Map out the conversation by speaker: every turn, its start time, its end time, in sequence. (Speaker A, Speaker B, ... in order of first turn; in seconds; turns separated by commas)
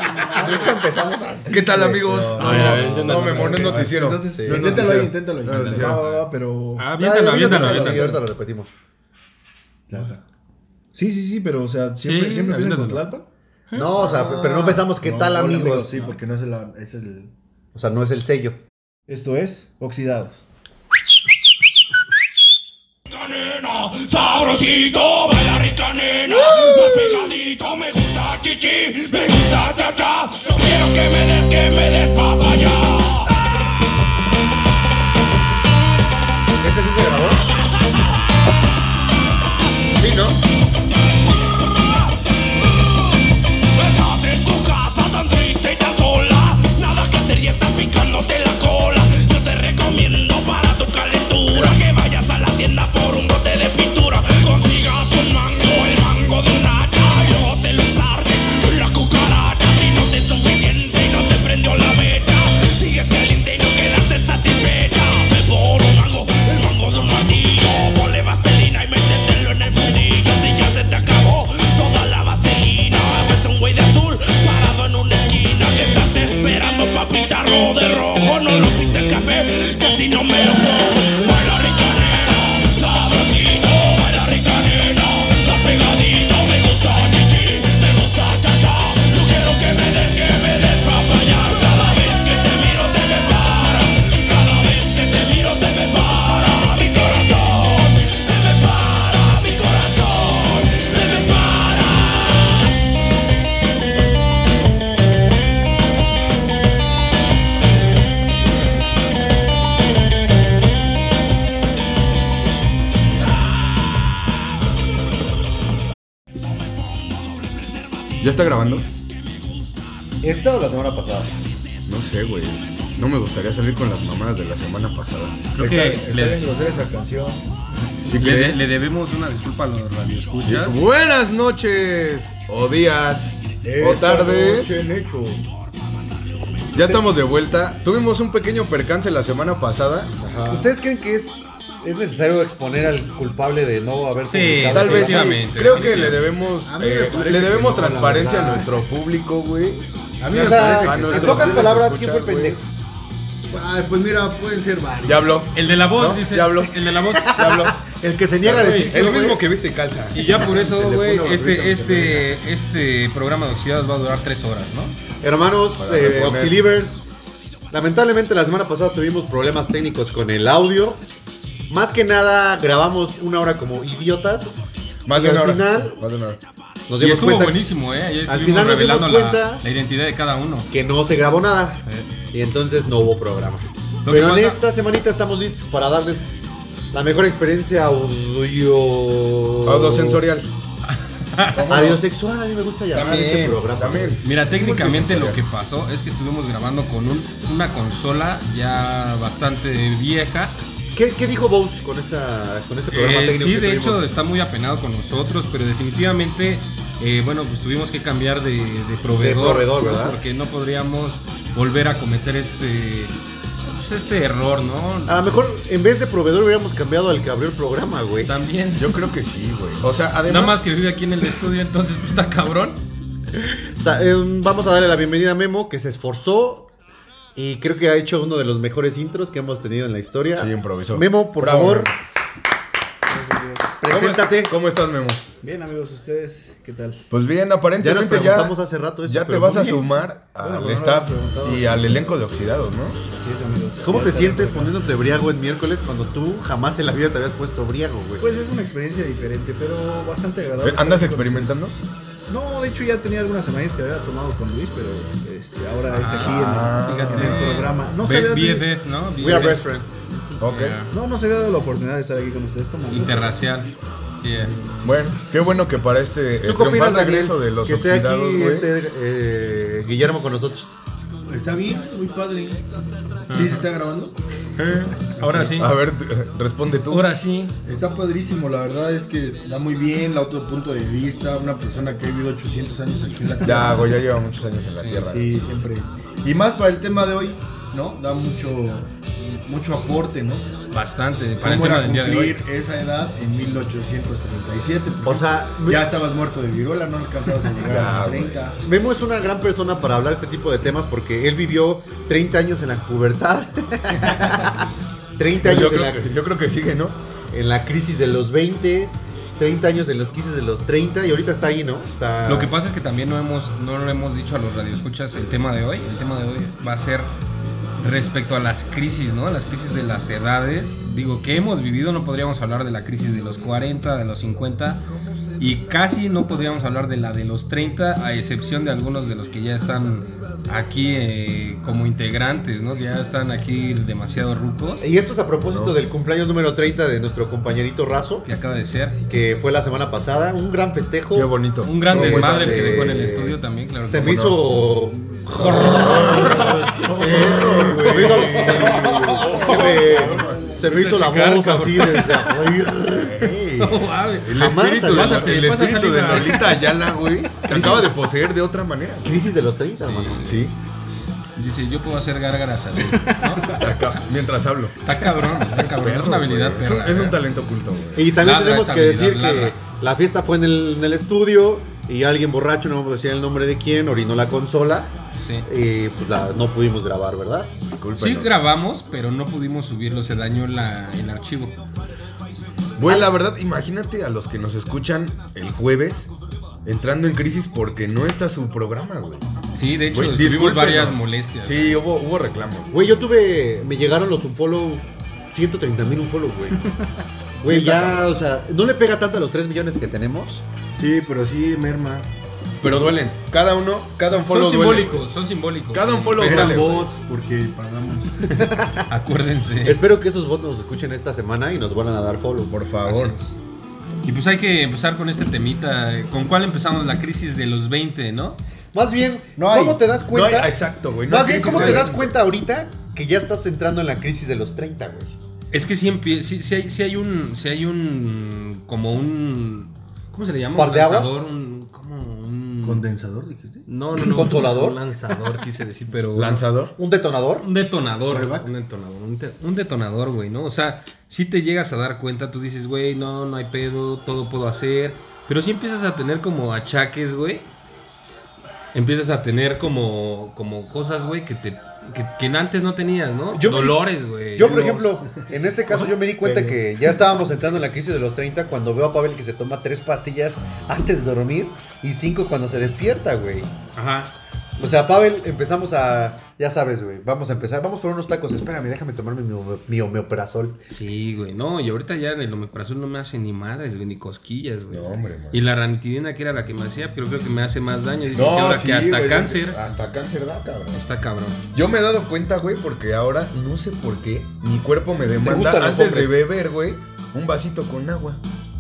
Speaker A: 0.2-3.0, Speaker B: 1.5-6.2, Speaker C: 2.1-5.9, Speaker D: 2.4-3.9, Speaker E: 3.5-6.9, Speaker D: 6.8-8.1, Speaker A: 7.0-8.7, Speaker B: 7.5-7.8, Speaker C: 9.9-10.2, Speaker E: 9.9-10.2, Speaker E: 10.9-13.2, Speaker D: 12.0-13.0, Speaker A: 13.8-15.9, Speaker B: 13.8-14.9, Speaker C: 14.8-17.3, Speaker A: 17.7-18.6, Speaker E: 19.1-20.4, Speaker F: 23.1-33.2, Speaker A: 36.6-37.4, Speaker B: 40.0-40.4, Speaker F: 43.8-102.1, Speaker B: 118.2-118.9, Speaker A: 120.2-121.3, Speaker B: 121.9-125.5, Speaker D: 125.5-126.5, Speaker C: 125.6-127.4, Speaker B: 128.0-128.6, Speaker D: 128.1-130.8, Speaker B: 130.4-134.8, Speaker C: 133.7-135.4, Speaker B: 136.7-140.1, Speaker C: 140.2-140.7, Speaker A: 140.5-145.4, Speaker D: 144.2-146.2, Speaker B: 144.7-152.6, Speaker C: 146.6-148.7, Speaker C: 150.2-151.8, Speaker A: 150.3-152.7, Speaker C: 153.5-155.4, Speaker B: 155.0-157.9, Speaker D: 155.5-157.3, Speaker A: 157.2-159.4, Speaker B: 158.4-160.3, Speaker D: 158.6-159.4, Speaker D: 160.1-164.9, Speaker C: 160.3-162.4, Speaker A: 165.2-167.0, Speaker B: 165.8-166.7, Speaker A: 167.7-171.0, Speaker A: 171.7-174.5, Speaker B: 175.1-176.4, Speaker A: 175.1-176.0, Speaker A: 176.9-177.6, Speaker D: 177.0-180.7, Speaker A: 178.2-179.6, Speaker A: 180.7-190.2, Speaker D: 184.1-184.6, Speaker B: 189.7-190.5, Speaker D: 191.2-191.7, Speaker B: 191.5-192.1, Speaker A: 191.7-194.2, Speaker B: 192.9-195.4, Speaker D: 194.2-200.6, Speaker A: 200.9-204.1, Speaker D: 202.9-215.2, Speaker A: 209.2-210.2, Speaker A: 215.1-218.4, Speaker D: 218.2-218.9, Speaker B: 218.8-220.6, Speaker D: 220.3-222.8, Speaker A: 223.4-226.7, Speaker A: 227.3-231.9, Speaker B: 230.3-231.9, Speaker E: 233.1-233.7, Speaker A: 233.8-234.6, Speaker B: 233.8-235.2, Speaker E: 235.4-237.0, Speaker B: 237.1-243.0, Speaker A: 237.8-239.9, Speaker E: 240.4-242.1, Speaker E: 243.1-244.9, Speaker A: 243.8-248.3, Speaker E: 248.2-251.6, Speaker B: 250.6-251.8, Speaker E: 252.3-258.7, Speaker D: 255.9-259.7, Speaker B: 256.1-257.6, Speaker A: 259.2-259.9, Speaker B: 260.4-260.8, Speaker D: 260.4-260.9, Speaker E: 260.9-263.4, Speaker D: 262.9-264.5, Speaker B: 264.8-268.7, Speaker A: 266.4-270.8, Speaker C: 271.3-272.6, Speaker D: 273.3-273.7, Speaker C: 273.3-274.2, Speaker D: 274.6-275.7, Speaker C: 274.9-275.7, Speaker B: 275.6-277.1, Speaker D: 276.9-277.5, Speaker C: 277.6-284.0, Speaker B: 283.4-285.4, Speaker D: 284.7-285.1, Speaker C: 285.1-290.5, Speaker D: 290.7-292.4, Speaker C: 291.4-298.6, Speaker A: 295.0-295.9, Speaker B: 297.6-298.4, Speaker A: 298.6-306.1, Speaker B: 305.4-307.0, Speaker A: 307.3-312.5, Speaker D: 312.2-317.1, Speaker D: 317.8-324.8, Speaker D: 325.4-334.9, Speaker A: 334.8-338.3, Speaker B: 335.4-335.8, Speaker D: 338.2-339.0, Speaker A: 339.1-341.3, Speaker B: 341.1-342.9, Speaker D: 341.6-344.3, Speaker A: 341.9-353.3, Speaker B: 343.9-344.4, Speaker B: 345.4-349.2, Speaker D: 345.4-352.6, Speaker C: 348.9-350.5, Speaker B: 349.9-350.4, Speaker B: 352.9-359.3, Speaker D: 353.6-356.7, Speaker A: 354.3-355.4, Speaker A: 357.5-358.0, Speaker A: 359.0-360.4, Speaker D: 359.8-360.6, Speaker B: 360.2-360.5, Speaker D: 361.2-363.6, Speaker B: 363.4-364.8, Speaker D: 364.8-367.2, Speaker B: 365.5-368.2, Speaker A: 368.0-374.9, Speaker D: 368.2-369.6, Speaker D: 375.2-375.5, Speaker A: 375.4-377.5, Speaker B: 377.7-378.4, Speaker D: 378.0-381.6, Speaker B: 382.8-386.1, Speaker A: 382.8-383.1, Speaker B: 386.7-389.3, Speaker D: 389.6-391.8, Speaker B: 389.9-392.7, Speaker A: 392.7-396.8, Speaker A: 397.4-400.4, Speaker B: 397.4-398.1, Speaker C: 400.8-402.1, Speaker B: 402.6-405.1, Speaker D: 404.3-406.8, Speaker B: 405.7-406.9, Speaker C: 406.2-408.5, Speaker A: 408.4-408.9, Speaker D: 408.9-409.8, Speaker A: 409.6-412.6, Speaker B: 412.5-413.2, Speaker D: 412.9-413.4, Speaker D: 414.1-418.4, Speaker A: 418.7-425.1, Speaker C: 419.4-419.8, Speaker B: 420.1-422.2, Speaker C: 421.4-421.9, Speaker D: 425.5-432.9, Speaker A: 430.6-431.2, Speaker C: 432.6-433.6, Speaker D: 433.7-436.5, Speaker A: 434.0-434.8, Speaker B: 436.1-436.8, Speaker A: 436.8-437.5, Speaker D: 437.4-447.5, Speaker C: 438.1-438.5, Speaker D: 448.7-454.7, Speaker A: 453.3-463.5, Speaker C: 454.4-456.8, Speaker D: 463.8-464.1, Speaker A: 464.6-470.6, Speaker D: 470.7-479.6, Speaker B: 474.7-475.4, Speaker B: 478.1-480.8, Speaker D: 480.7-481.4, Speaker B: 481.5-488.2, Speaker A: 485.2-486.2